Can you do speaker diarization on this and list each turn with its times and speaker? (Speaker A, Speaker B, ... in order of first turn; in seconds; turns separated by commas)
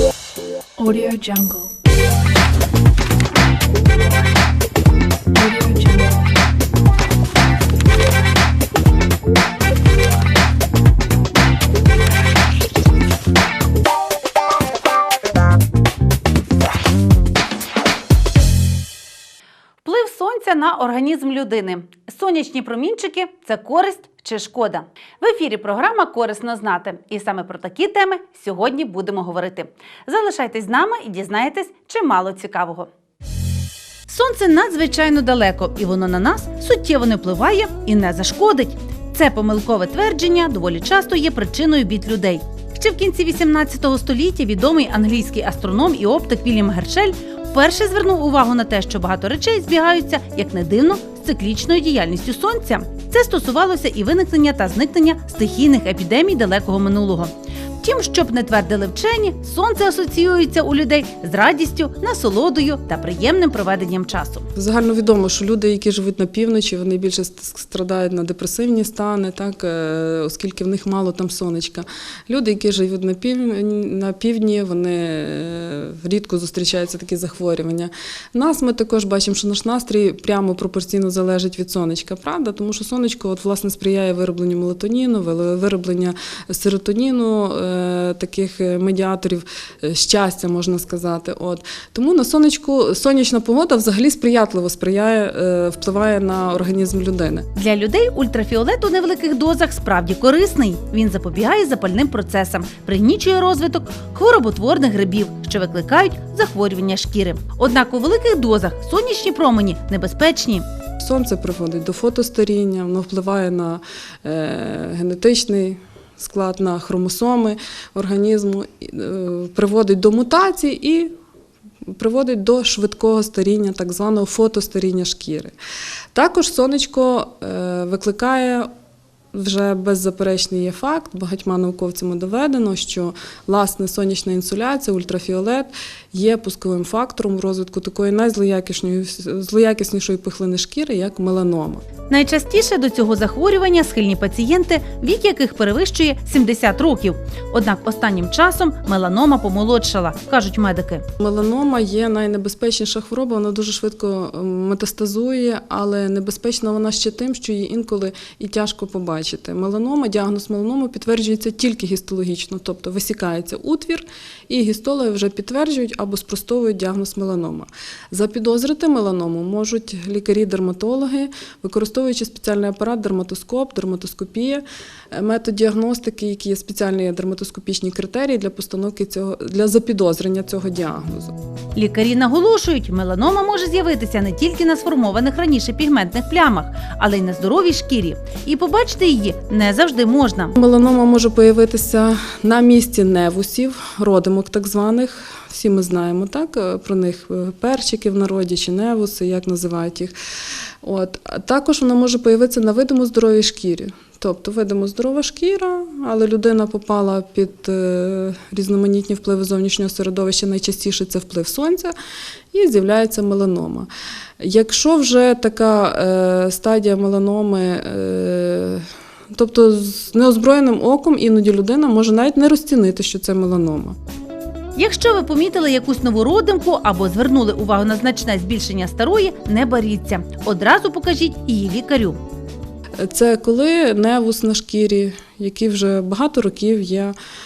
Speaker A: 0.8-1.7, Speaker A: 5.3-6.3, Speaker B: 19.8-32.9, Speaker B: 34.1-64.5, Speaker C: 64.6-97.5, Speaker B: 97.5-110.7, Speaker C: 111.0-121.1, Speaker C: 121.9-125.5, Speaker C: 126.1-128.7, Speaker C: 129.3-141.8, Speaker B: 142.1-151.0, Speaker C: 151.2-181.3, Speaker B: 181.8-190.6, Speaker C: 190.6-200.1, Speaker C: 200.8-211.9, Speaker C: 212.5-224.0, Speaker B: 224.8-232.2, Speaker C: 233.0-237.2